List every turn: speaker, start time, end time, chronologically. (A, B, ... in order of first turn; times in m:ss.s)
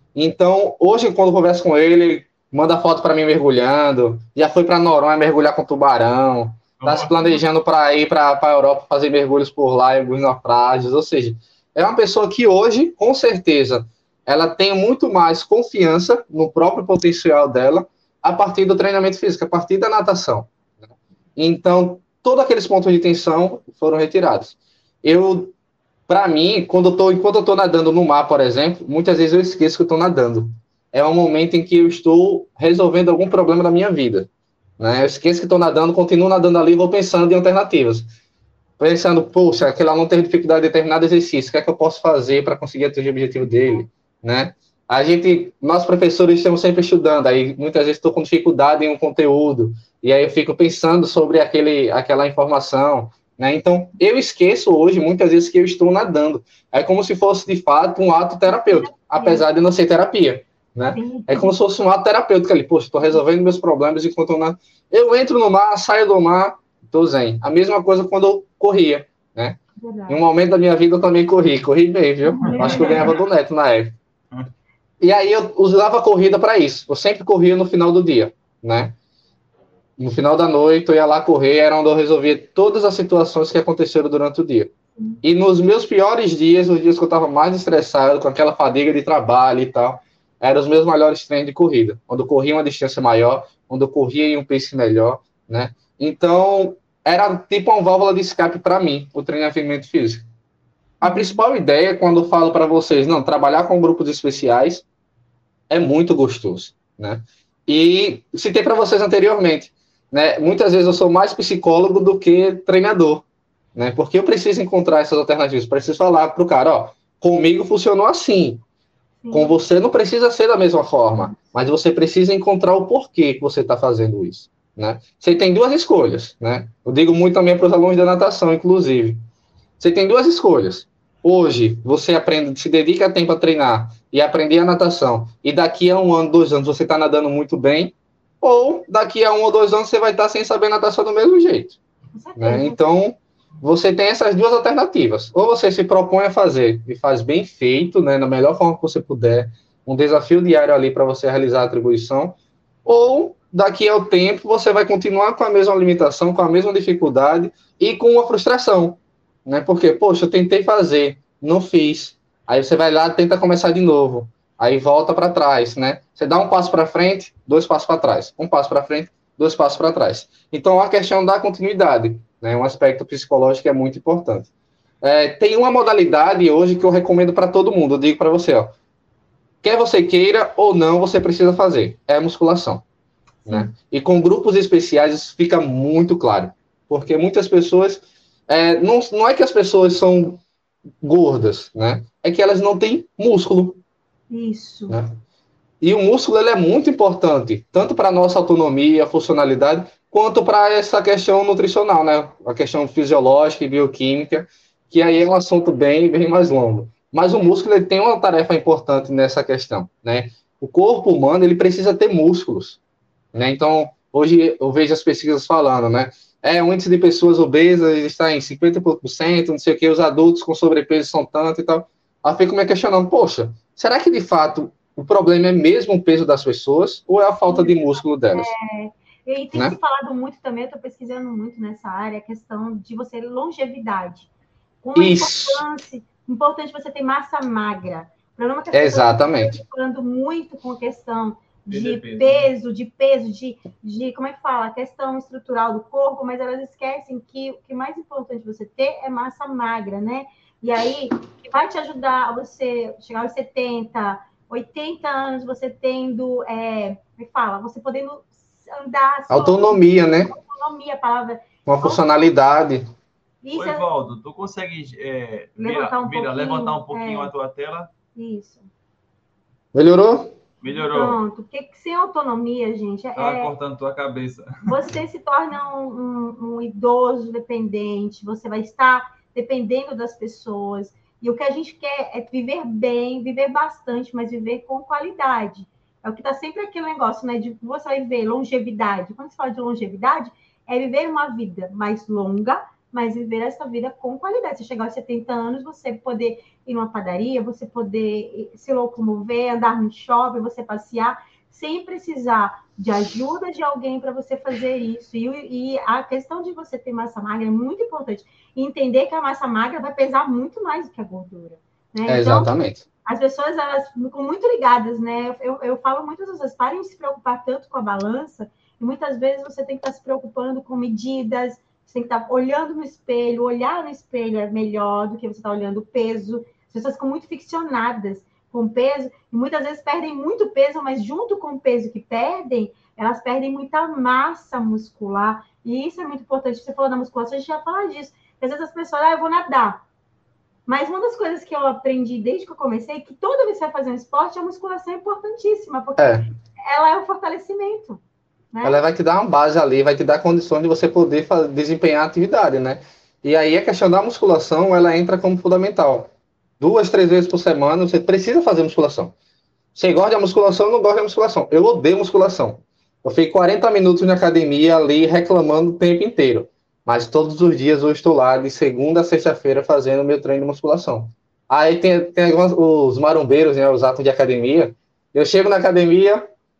0:00.1-0:20.5 A
0:06.8-0:07.4 B
0:21.4-0:25.5 A
0:26.1-0:34.3 A
0:34.8-0:38.0 A
0:38.8-1:09.6 A
0:43.4-0:43.8 C
0:58.5-0:59.4 C
1:00.8-1:01.5 C
1:09.8-1:10.2 C
1:10.1-1:14.0 A
1:12.2-1:13.1 C
1:12.4-1:13.2 B
1:15.0-1:18.9 A
1:20.0-1:40.2 A
1:41.0-1:41.4 C
1:41.0-1:44.8 A
1:45.7-1:58.6 A
1:59.2-1:59.6 C
1:59.3-2:09.2 A
2:09.8-2:21.8 A
2:22.2-2:22.8 C
2:22.4-2:54.5 A
2:55.0-2:58.7 A
2:59.6-3:02.8 A
3:03.5-3:10.4 A
3:11.0-3:13.8 A
3:14.3-3:15.0 C
3:15.8-3:32.8 A
3:33.3-3:48.5 A
3:47.5-3:54.3 C
3:54.8-4:22.3 C
3:55.0-3:55.6 A
3:58.7-3:59.6 A
4:01.7-4:02.5 B
4:19.3-4:20.3 A
4:21.6-4:22.8 A
4:23.4-4:23.9 C
4:23.5-4:27.9 B
4:25.6-4:27.3 C
4:28.1-4:28.7 C
4:29.7-4:30.4 A
4:30.6-4:31.2 B
4:30.7-4:33.5 C
4:33.2-4:34.9 B
4:34.7-5:12.5 C
5:12.0-5:12.8 A
5:13.0-5:39.8 C
5:40.6-5:48.0 C
5:46.0-5:46.2 A
5:48.5-5:48.8 C
5:48.6-5:59.1 A
5:59.7-6:16.2 A